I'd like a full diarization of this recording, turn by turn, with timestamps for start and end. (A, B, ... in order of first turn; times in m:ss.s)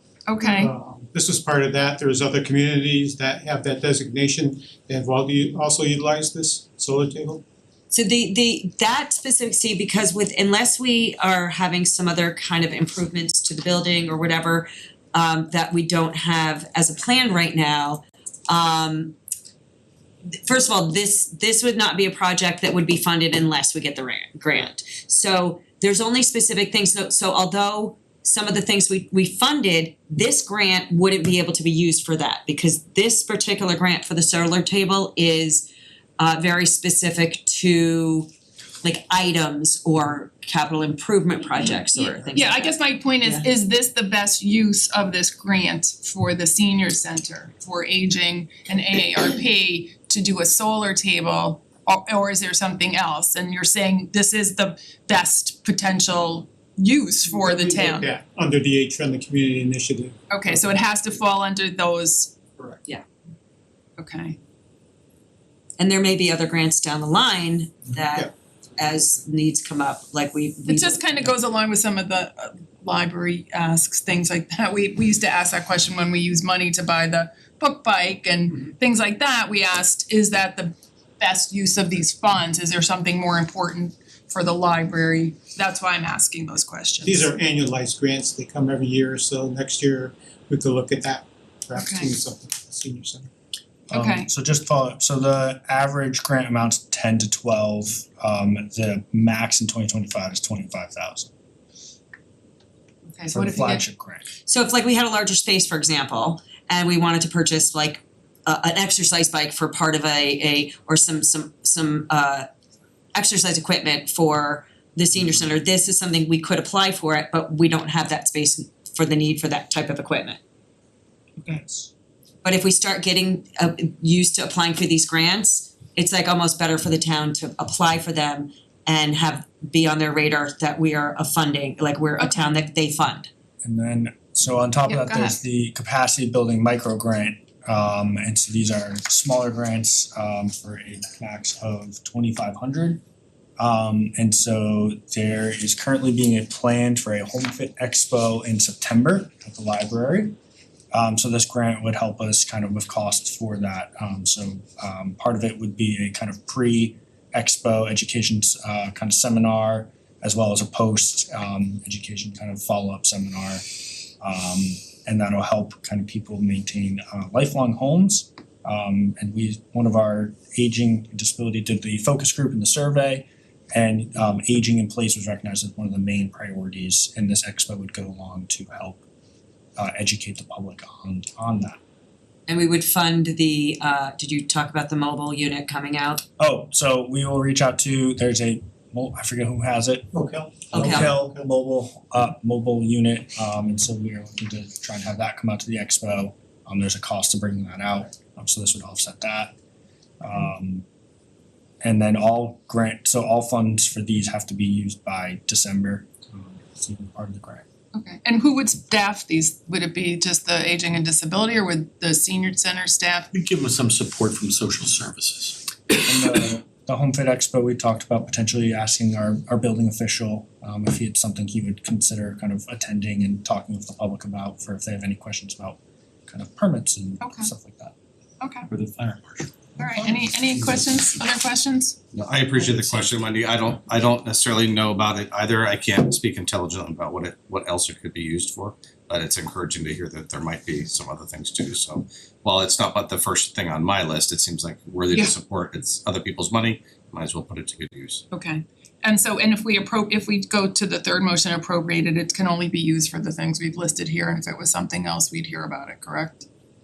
0:00.3-0:00.7 A
0:00.4-0:07.4 B
0:07.9-0:19.2 C
0:20.4-0:35.7 C
0:36.2-0:38.3 C
0:38.8-0:42.7 C
0:42.0-0:58.1 A
0:57.3-1:00.3 B
1:00.3-1:02.4 A
1:04.0-1:04.4 A
1:05.8-1:11.3 C
1:08.0-1:08.3 B
1:10.7-1:27.3 A
1:27.0-1:33.3 B
1:31.8-1:32.1 A
1:33.9-1:34.3 A
1:33.9-1:41.3 D
1:43.1-1:43.8 A
1:43.3-1:44.3 D
1:44.5-1:52.5 C
1:53.2-2:00.4 C
2:01.4-2:01.9 D
2:02.4-2:13.3 C
2:12.2-2:12.5 A
2:13.6-2:23.0 D
2:14.9-2:15.4 A
2:23.6-2:30.4 D
2:30.9-2:43.6 D
2:44.2-2:59.0 D
2:59.8-3:01.8 D
3:02.5-3:06.2 C
3:06.4-3:10.1 D
3:10.1-3:11.5 B
3:10.7-3:19.5 D
3:20.2-3:20.8 D
3:21.8-3:27.6 D
3:27.9-3:33.3 A
3:33.3-3:35.6 E
3:36.0-3:47.9 D
3:47.2-3:47.5 A
3:48.4-3:48.7 A
3:48.7-3:49.5 E
3:49.8-3:52.0 A
3:52.1-4:08.2 F
4:08.3-4:16.5 A